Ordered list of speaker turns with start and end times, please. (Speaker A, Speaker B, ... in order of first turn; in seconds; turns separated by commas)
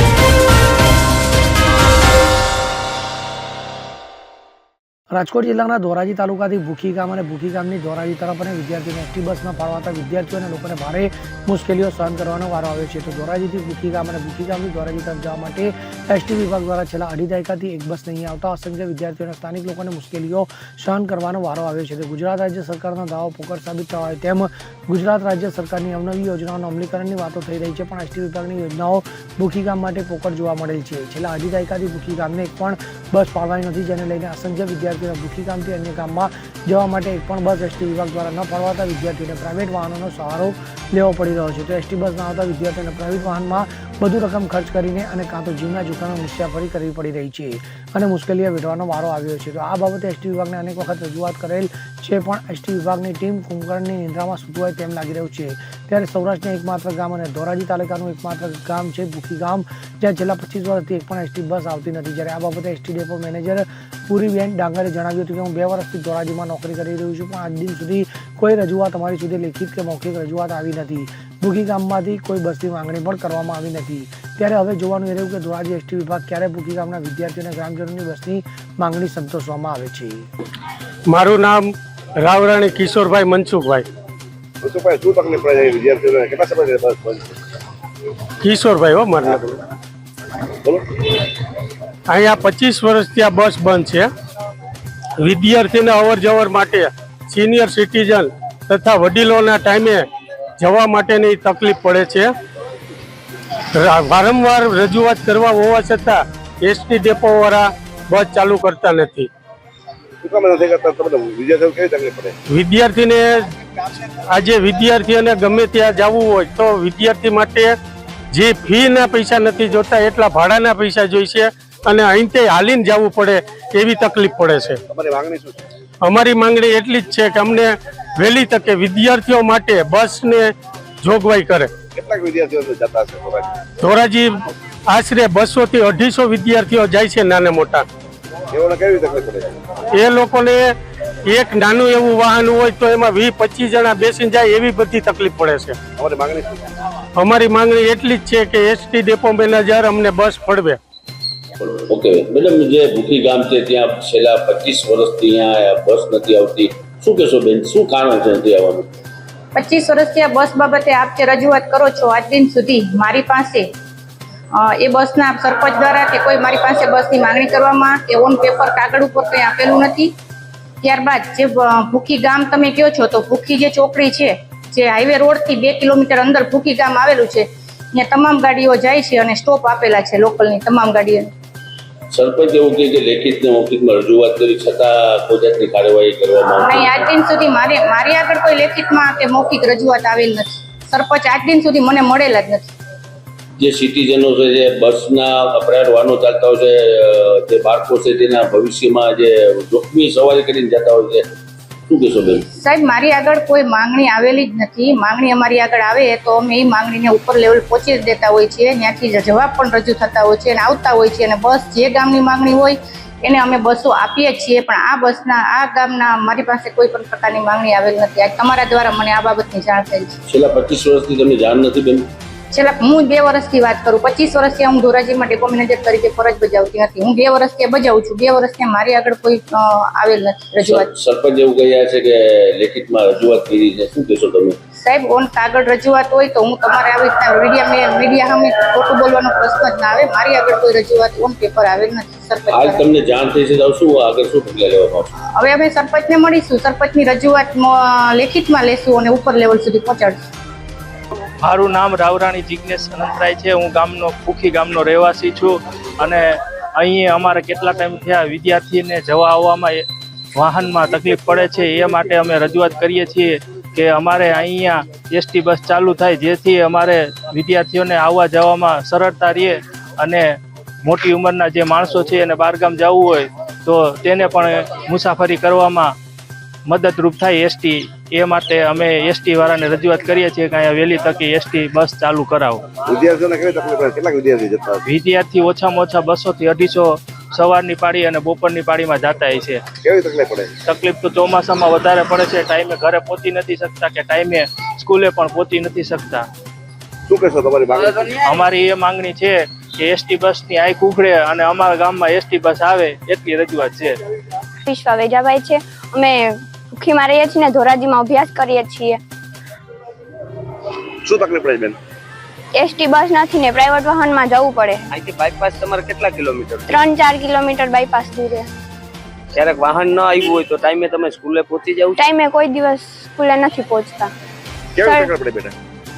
Speaker A: 5.1-80.3, Speaker B: 81.1-81.7, Speaker B: 82.2-83.8, Speaker C: 84.6-87.3, Speaker B: 88.4-89.4, Speaker B: 92.1-94.1, Speaker B: 95.2-100.0, Speaker B: 100.6-102.3, Speaker B: 103.8-109.3, Speaker C: 110.2-112.4, Speaker B: 112.5-113.4, Speaker B: 114.3-117.7, Speaker B: 118.3-124.8, Speaker C: 124.9-125.6, Speaker B: 126.0-130.5, Speaker B: 131.0-131.7, Speaker C: 131.9-133.5, Speaker B: 133.8-134.3, Speaker B: 134.9-137.9, Speaker C: 138.5-139.6, Speaker B: 140.0-140.6, Speaker B: 141.3-145.8, Speaker C: 146.0-146.7, Speaker B: 147.2-150.8, Speaker D: 151.6-158.9, Speaker E: 159.6-163.7, Speaker E: 164.6-170.1, Speaker E: 170.8-181.3, Speaker D: 182.1-187.1, Speaker E: 186.6-192.7, Speaker D: 193.6-201.3, Speaker D: 201.9-202.4, Speaker E: 202.6-220.2, Speaker D: 220.3-222.1, Speaker E: 222.5-230.9, Speaker D: 230.6-234.6, Speaker E: 234.8-242.9, Speaker D: 242.5-245.1, Speaker E: 245.4-250.2, Speaker F: 251.4-259.8, Speaker F: 260.4-275.9, Speaker F: 276.7-282.6, Speaker C: 282.9-284.8, Speaker F: 284.9-289.6, Speaker C: 289.8-290.5, Speaker F: 290.7-296.2, Speaker C: 297.1-298.1, Speaker F: 298.2-304.0, Speaker G: 304.7-309.0, Speaker C: 311.0-311.8, Speaker G: 312.6-314.9, Speaker H: 314.9-316.6, Speaker G: 316.7-318.5, Speaker H: 319.4-321.9, Speaker G: 321.9-324.1, Speaker C: 324.8-325.6, Speaker G: 324.8-325.1